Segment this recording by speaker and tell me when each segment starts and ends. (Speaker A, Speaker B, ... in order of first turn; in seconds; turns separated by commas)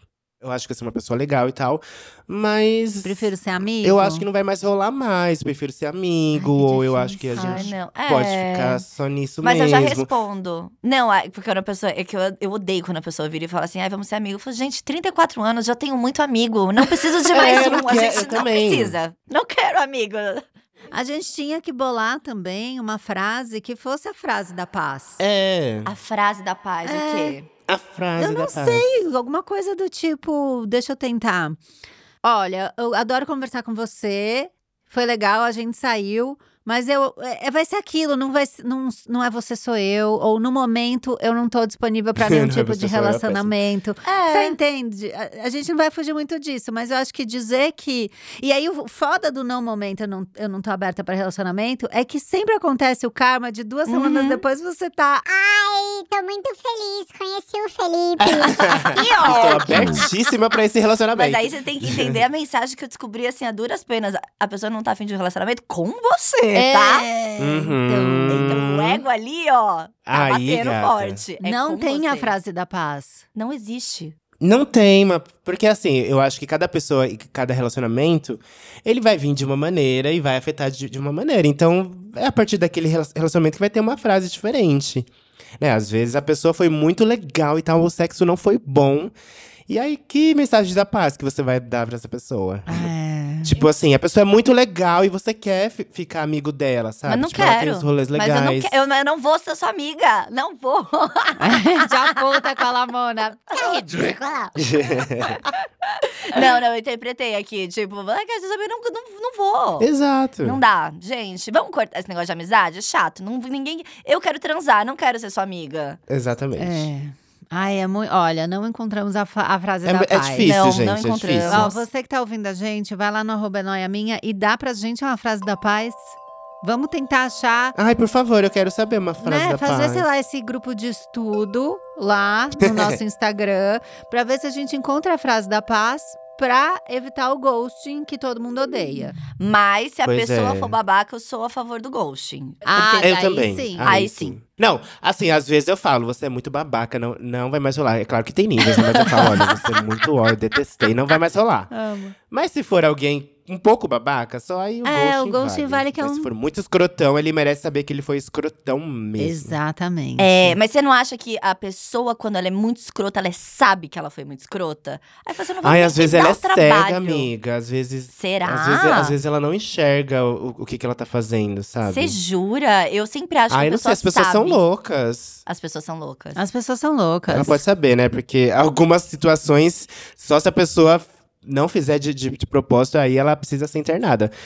Speaker A: 0.4-10.1, Speaker B: 3.0-4.3, Speaker B: 6.3-7.7, Speaker C: 7.3-8.8, Speaker C: 9.4-20.4, Speaker A: 17.3-18.9, Speaker B: 20.9-25.2, Speaker A: 25.2-25.9, Speaker C: 25.9-27.5, Speaker B: 26.9-27.4, Speaker A: 27.7-28.9, Speaker B: 28.2-31.6, Speaker B: 32.2-55.3, Speaker A: 42.2-43.6, Speaker C: 44.0-44.6, Speaker C: 53.9-54.4, Speaker D: 55.3-60.0, Speaker A: 58.2-62.2, Speaker C: 58.6-60.0, Speaker C: 61.1-67.1, Speaker B: 66.5-68.6, Speaker A: 67.4-69.0, Speaker C: 68.3-72.3, Speaker A: 70.1-71.2, Speaker B: 71.4-73.2, Speaker C: 73.4-74.2, Speaker A: 74.4-89.1, Speaker A: 89.7-92.9, Speaker B: 92.7-93.6, Speaker A: 93.4-98.7, Speaker C: 97.1-101.8, Speaker B: 101.4-103.8, Speaker D: 103.5-104.5, Speaker A: 104.6-105.4, Speaker C: 106.3-109.9, Speaker A: 109.8-110.6, Speaker C: 110.4-116.0, Speaker A: 116.1-116.9, Speaker B: 116.6-120.5, Speaker A: 119.8-121.7, Speaker C: 120.4-121.8, Speaker B: 121.5-127.8, Speaker A: 127.8-130.1, Speaker B: 129.2-139.2, Speaker A: 132.6-133.0, Speaker C: 139.4-143.0, Speaker A: 140.1-140.8, Speaker B: 142.7-144.0, Speaker A: 142.9-151.7, Speaker C: 143.8-144.4, Speaker C: 149.1-149.6, Speaker B: 151.7-152.2, Speaker A: 152.3-159.6, Speaker B: 154.8-156.3, Speaker B: 159.2-160.5, Speaker C: 160.2-167.3, Speaker A: 165.6-172.2, Speaker C: 168.1-169.2, Speaker C: 171.8-174.6, Speaker A: 173.5-175.4, Speaker C: 175.5-176.4, Speaker B: 176.4-177.6, Speaker A: 177.3-184.3